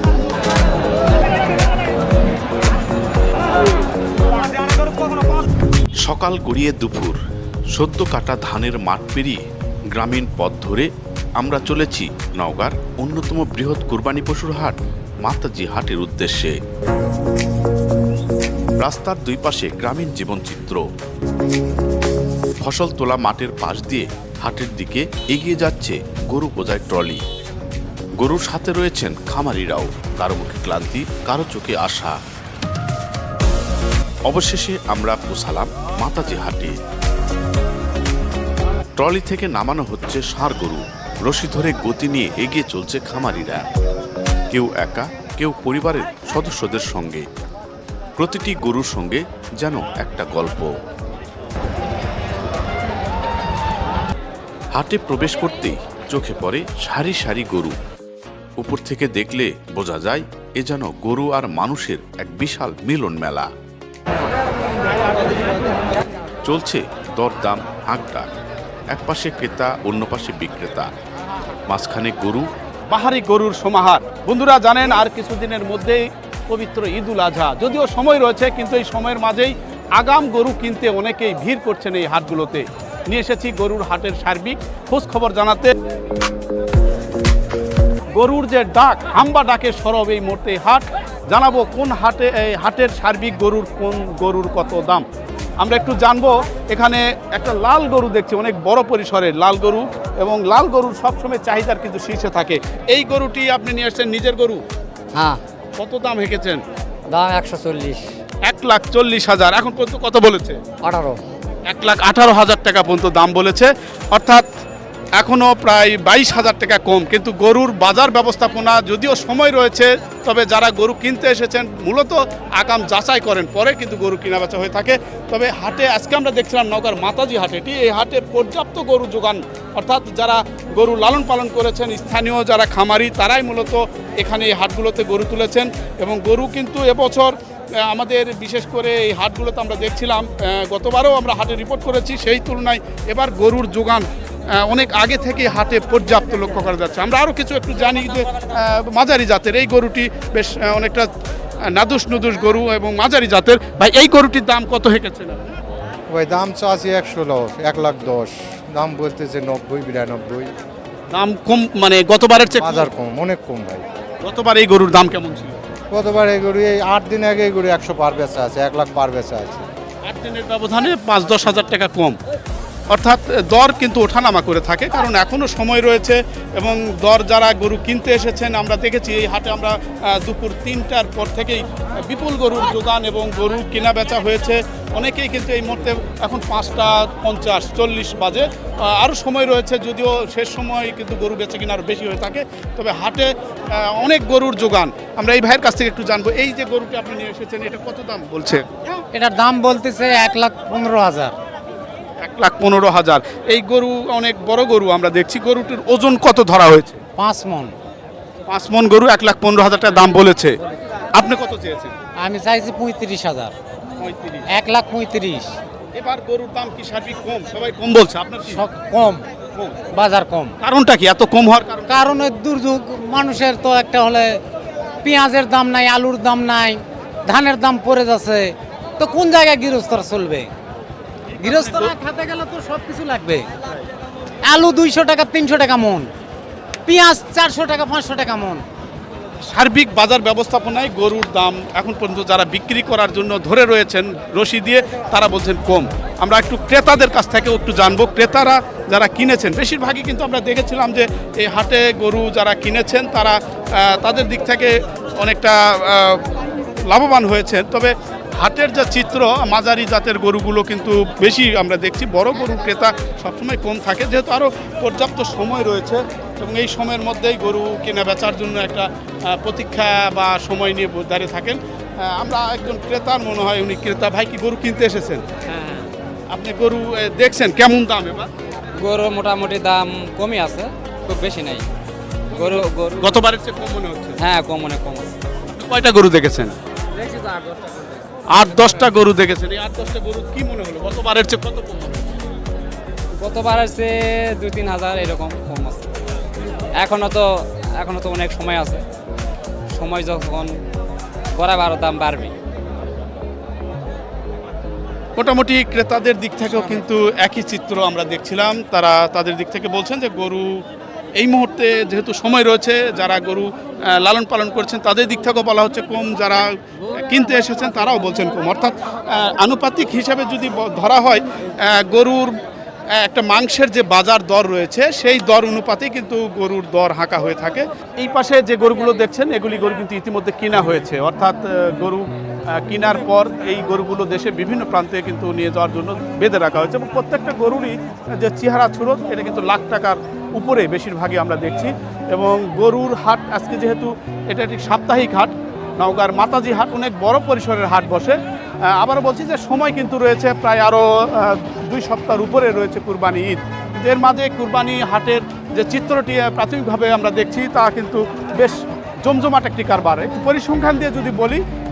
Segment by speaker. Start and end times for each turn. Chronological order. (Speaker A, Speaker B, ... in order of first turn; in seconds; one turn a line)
Speaker A: 6.0-7.2
Speaker A: 7.7-9.4
Speaker A: 9.9-16.5
Speaker A: 18.8-20.8
Speaker A: 22.6-27.2
Speaker A: 28.2-32.2
Speaker A: 34.2-36.7
Speaker A: 39.0-43.6
Speaker A: 44.5-47.2
Speaker A: 48.2-50.7
Speaker A: 54.7-57.7
Speaker A: 58.6-63.5
Speaker A: 66.4-68.3
Speaker A: 68.9-70.9
Speaker A: 71.7-72.5
Speaker B: 72.9-85.7
Speaker B: 88.1-95.0
Speaker B: 95.6-104.6
Speaker B: 105.8-106.6
Speaker C: 107.1-108.0
Speaker B: 108.5-110.6
Speaker D: 110.8-111.2
Speaker B: 111.7-114.4
Speaker B: 115.2-137.3
Speaker B: 137.9-144.1
Speaker B: 144.6-151.1
Speaker B: 151.7-155.4
Speaker E: 156.1-160.5
Speaker B: 161.1-162.9
Speaker E: 162.5-163.9
Speaker B: 164.2-165.6
Speaker E: 165.9-169.7
Speaker B: 170.1-172.2
Speaker B: 172.9-198.7
Speaker D: 199.1-201.3
Speaker B: 202.2-207.0
Speaker D: 207.2-207.7
Speaker B: 208.5-210.6
Speaker B: 211.1-211.9
Speaker D: 212.2-213.5
Speaker B: 214.0-214.4
Speaker D: 214.5-215.5
Speaker B: 215.9-218.6
Speaker D: 218.5-219.3
Speaker D: 219.9-220.6
Speaker B: 220.6-222.1
Speaker D: 221.9-224.4
Speaker D: 225.0-230.5
Speaker B: 231.3-231.9
Speaker D: 231.4-233.5
Speaker D: 234.4-236.1
Speaker D: 236.8-238.6
Speaker B: 239.5-256.3
Speaker B: 256.9-275.2
Speaker C: 275.5-275.9
Speaker B: 276.3-278.3
Speaker C: 278.8-281.6
Speaker C: 282.3-283.2
Speaker B: 282.3-284.2
Speaker C: 284.2-285.1
Speaker B: 285.5-286.5
Speaker C: 287.0-288.0
Speaker B: 288.3-292.2
Speaker C: 293.2-295.9
Speaker C: 296.8-298.8
Speaker C: 299.7-300.5
Speaker C: 301.4-302.3
Speaker B: 305.2-310.5
Speaker B: 311.2-322.3
Speaker B: 323.0-332.1
Speaker B: 332.6-348.2
Speaker B: 348.8-361.4